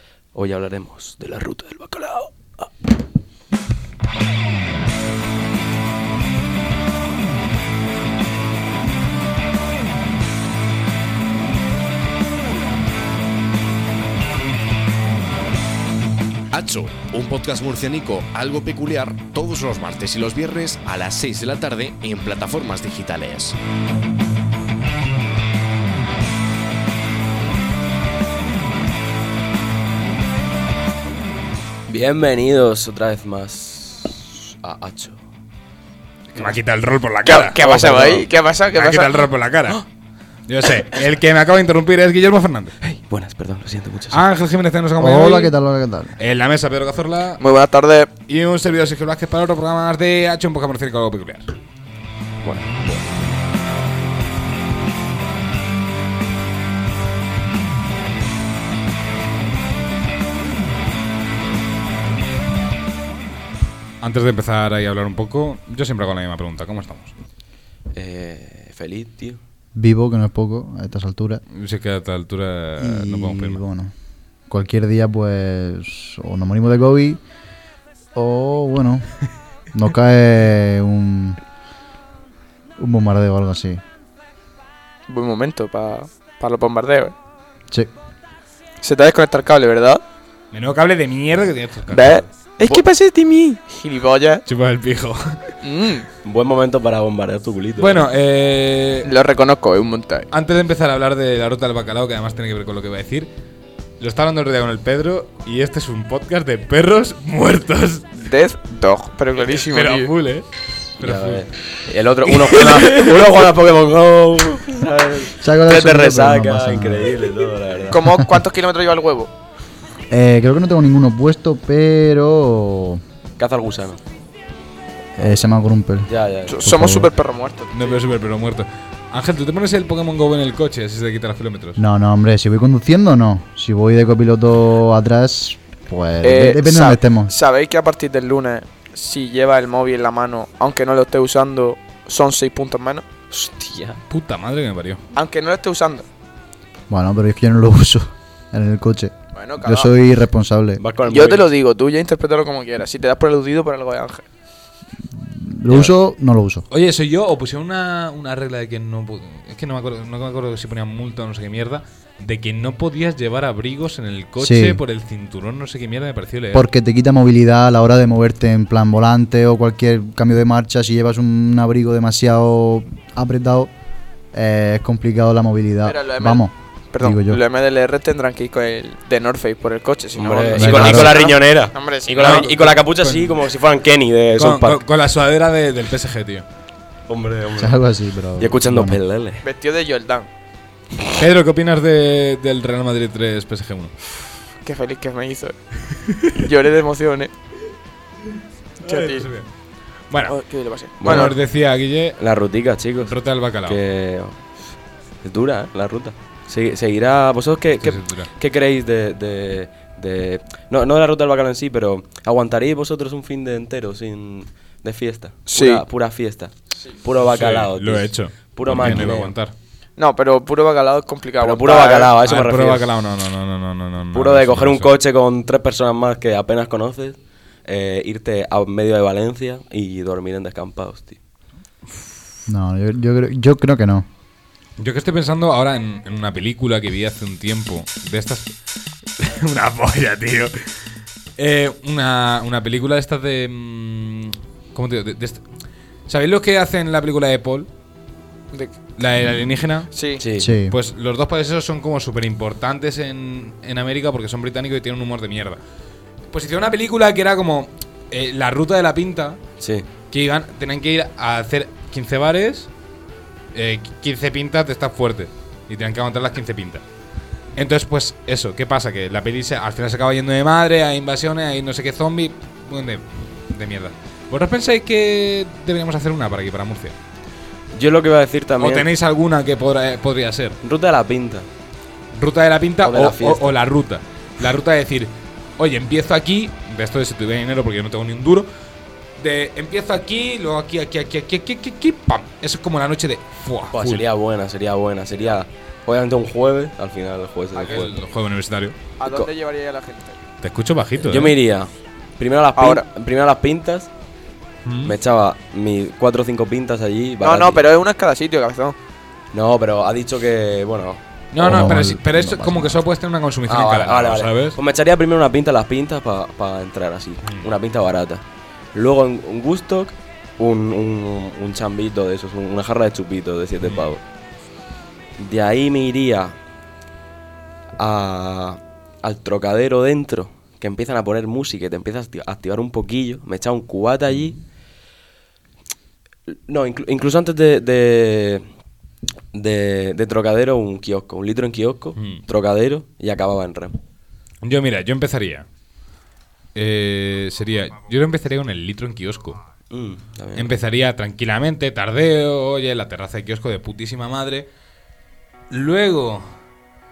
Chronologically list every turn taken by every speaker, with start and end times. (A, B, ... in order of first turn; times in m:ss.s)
0:00.3-0:02.7 A
0:16.5-0:23.6 B
0:31.9-0:35.2 A
0:36.3-0:37.9 C
0:37.2-0:39.3 D
0:37.6-0:38.3 A
0:38.7-0:39.8 C
0:40.5-0:42.8 C
0:42.8-0:44.2 A
0:44.1-0:45.5 C
0:45.0-0:46.2 E
0:46.2-0:47.4 C
0:47.4-0:48.1 D
0:48.3-0:51.5 C
0:52.4-0:53.2 A
1:04.0-1:07.1 C
1:07.9-1:09.4 A
1:09.7-1:11.4 E
1:11.5-1:13.6 C
1:12.8-1:13.9 E
1:14.5-1:17.2 E
1:18.1-1:19.1 E
1:19.7-1:21.4 E
1:22.8-1:23.8 E
1:25.1-1:27.1 D
1:28.8-1:30.0 D
1:30.5-1:32.3 C
1:31.9-1:34.4 D
1:34.4-1:35.4 C
1:35.6-1:36.1 D
1:36.2-1:38.1 A
1:37.8-1:39.1 C
1:39.0-1:40.3 D
1:40.3-1:43.3 C
1:44.0-1:48.2 C
1:48.2-1:50.1 D
1:49.4-1:50.4 C
1:51.0-1:51.4 C
1:51.0-1:58.0 A
1:52.5-1:53.1 C
1:55.4-1:57.1 E
1:57.9-1:59.3 D
2:00.1-2:03.0 E
2:03.4-2:04.0 A
2:05.2-2:06.1 E
2:06.1-2:06.6 A
2:06.5-2:08.0 D
2:06.6-2:07.1 E
2:07.7-2:11.8 C
2:11.8-2:17.3 E
2:16.2-2:23.1 D
2:23.3-2:24.0 A
2:24.1-2:25.0 C
2:25.2-2:26.1 D
2:26.9-2:30.8 E
2:29.3-2:29.9 D
2:30.8-2:31.5 A
2:31.1-2:34.2 D
2:35.1-2:36.6 E
2:36.7-2:46.7 C
2:44.4-2:44.8 E
2:46.5-2:53.7 E
2:54.3-2:57.4 E
2:55.8-3:02.5 D
3:00.2-3:04.8 A
3:00.6-3:01.2 E
3:02.2-3:03.3 C
3:04.4-3:06.4 C
3:07.1-3:07.8 A
3:07.6-3:09.0 E
3:08.4-3:09.4 A
3:09.4-3:10.3 D
3:11.1-3:13.9 C
3:14.6-3:15.6 D
3:16.2-3:17.3 D
3:18.8-3:19.5 C
3:18.8-3:19.2 D
3:20.1-3:20.4 C
3:20.3-3:21.3 D
3:21.0-3:21.4 A
3:21.0-3:22.2 C
3:22.2-3:24.4 A
3:23.0-3:23.8 C
3:25.2-3:39.3 A
3:27.8-3:28.3 C
3:35.5-3:35.8 D
3:37.2-3:39.5 C
3:40.0-3:42.1 D
3:41.4-3:42.9 A
3:42.2-3:44.9 C
3:44.1-3:51.2 A
3:52.5-3:54.0 E
3:54.8-3:58.5 C
3:59.2-4:00.6 C
4:01.4-4:05.4 C
4:06.1-4:07.7 C
4:09.0-4:09.9 C
4:09.9-4:10.2 D
4:10.2-4:10.5 A
4:10.4-4:10.8 E
4:10.5-4:15.6 C
4:16.3-4:19.4 C
4:19.6-4:19.9 A
4:20.1-4:22.7 C
4:23.5-4:26.8 C
4:27.6-4:37.0 C
4:37.7-4:38.9 A
4:38.6-4:40.6 C
4:40.6-4:41.5 A
4:42.1-4:48.5 C
4:42.8-4:43.6 A
4:49.2-4:54.0 C
4:53.7-4:58.0 A
4:57.5-4:58.8 C
4:59.0-5:00.2 D
4:59.0-4:59.3 A
5:00.4-5:01.3 C
5:01.0-5:03.9 A
5:02.6-5:02.8 D
5:04.6-5:05.0 C
5:04.8-5:07.6 A
5:07.2-5:08.8 D
5:09.3-5:11.0 A
5:11.3-5:14.6 C
5:11.4-5:12.8 E
5:13.4-5:24.0 A
5:17.2-5:17.5 C
5:25.2-5:26.4 A
5:27.8-5:34.4 A
5:36.3-5:38.5 A
5:39.3-5:43.8 A
5:42.0-5:42.2 C
5:44.4-5:45.4 C
5:46.5-5:49.4 C
5:49.7-5:50.5 A
5:50.4-5:54.5 C
5:55.5-5:56.2 C